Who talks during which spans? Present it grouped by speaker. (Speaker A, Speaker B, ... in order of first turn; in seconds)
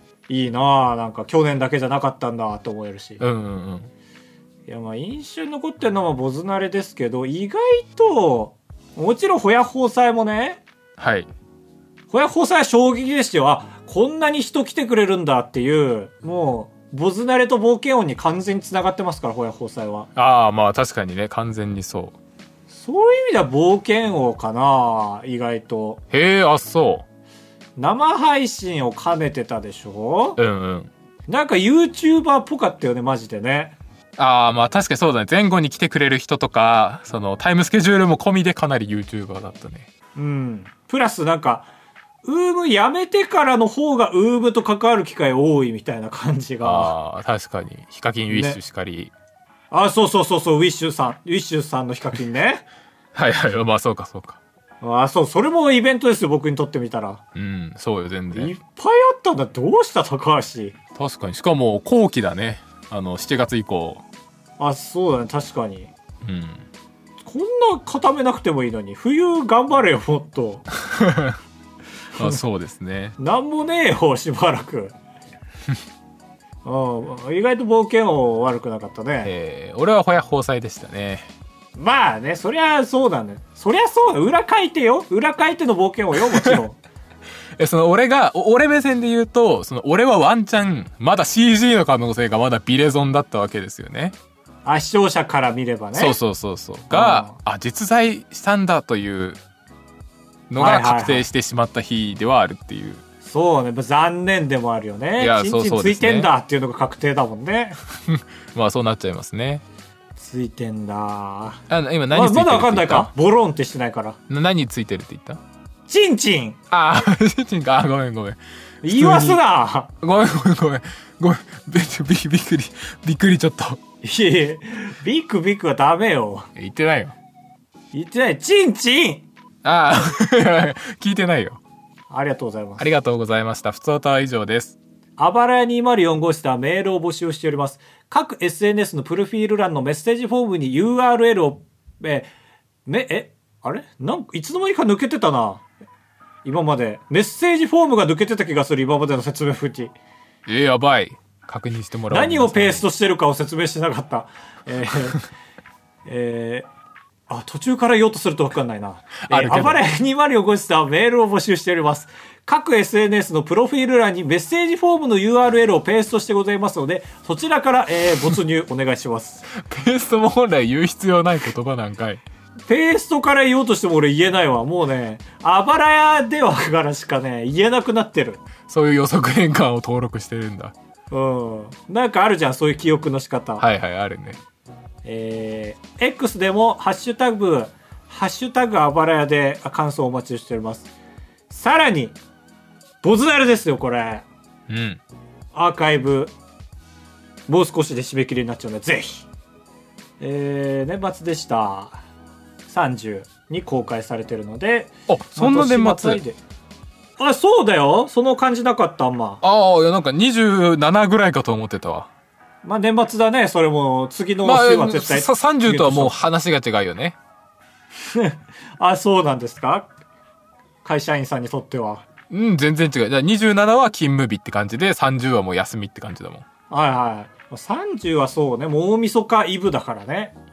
Speaker A: 0.3-3.2, 4.7-10.6, 12.1-20.1, 22.7-26.0, 27.8-30.4, 31.3-33.8, 40.1-41.7, 42.2-46.9, 48.3-48.6, 49.7-52.6, 54.8-57.2, 58.3-60.8, 64.6-65.9, 67.2-70.6, 73.2-74.9, 76.6-79.3, 81.7-86.8, 94.6-96.2, 96.9-97.4, 100.5-101.3, 103.2-107.8, 110.2-114.2, 115.9-116.6, 118.8-119.9, 124.0-126.5, 127.9-129.3, 132.1-132.9, 135.2-142.3, 142.8-145.6, 146.4-149.9, 152.1-155.2, 156.1-156.7, 157.3-169.4, 172.7-178.4, 181.1-183.6, 185.0-190.9, 191.5-192.2, 193.0-194.2, 195.5-196.3, 197.5-199.3, 200.2-202.0, 202.7-206.4, 207.2-209.4, 212.6-216.1, 218.1-219.9, 220.8-222.1, 226.7-230.3
Speaker B: 3.2-3.9, 11.0-11.3, 20.1-22.1, 26.1-27.0, 30.4-30.9, 34.2-39.9, 46.6-49.1, 53.1-54.4, 57.3-58.5, 61.0-64.0, 66.2-66.6, 70.8-71.4, 72.2-73.2, 79.2-81.3, 86.3-86.6, 87.6-94.1, 96.0-99.4, 100.5-103.0, 105.2-106.3, 108.0-109.6, 111.7-113.1, 114.3-115.4, 116.7-119.4, 120.0-123.8, 126.5-127.1, 129.6-131.6, 132.8-134.8, 150.4-152.8, 159.3-159.8, 169.5-172.2, 178.6-180.7, 183.6-184.4, 194.7-195.0, 205.1-206.2, 209.4-212.1, 214.4-217.2, 222.3-226.4